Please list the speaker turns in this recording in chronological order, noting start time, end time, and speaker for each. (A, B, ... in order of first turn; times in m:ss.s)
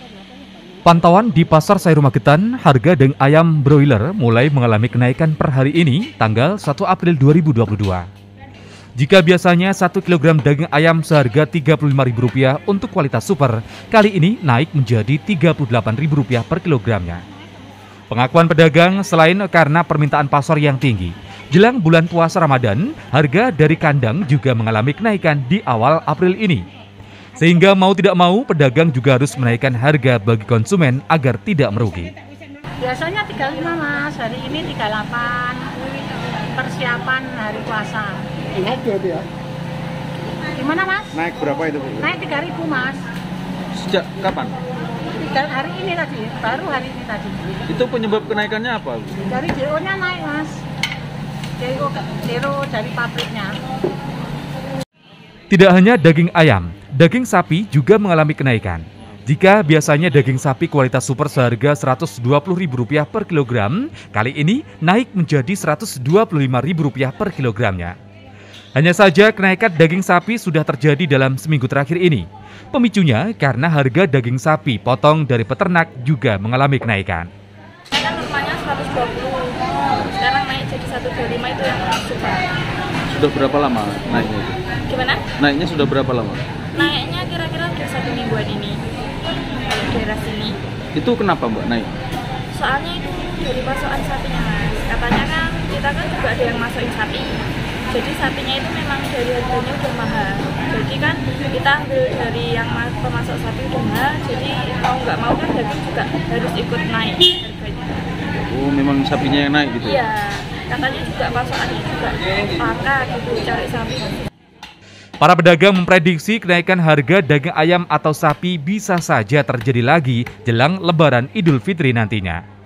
0:00.8-0:08.0 A
0:09.0-0:17.2 A
0:18.1-0:26.6 A
0:27.4-0:32.1 A
0:32.8-0:35.9 B
0:36.5-0:39.2 B
0:40.6-0:41.2 B
0:41.1-0:42.1 C
0:42.0-0:43.0 B
0:43.7-0:44.6 C
0:45.1-0:47.4 B
0:47.7-0:49.2 C
0:49.3-0:50.6 B
0:51.6-0:53.5 B
0:55.5-1:08.0 A
1:08.8-1:17.3 A
1:17.9-1:22.5 D
1:23.1-1:24.6 C
1:24.9-1:25.3 D
1:25.4-1:26.4 C
1:26.7-1:28.8 D
1:29.6-1:30.6 D
1:30.9-1:31.9 C
1:32.5-1:37.3 D
1:37.9-1:48.0 D
1:48.3-1:50.0 C
1:49.8-1:54.2 D
1:55.2-2:02.4 A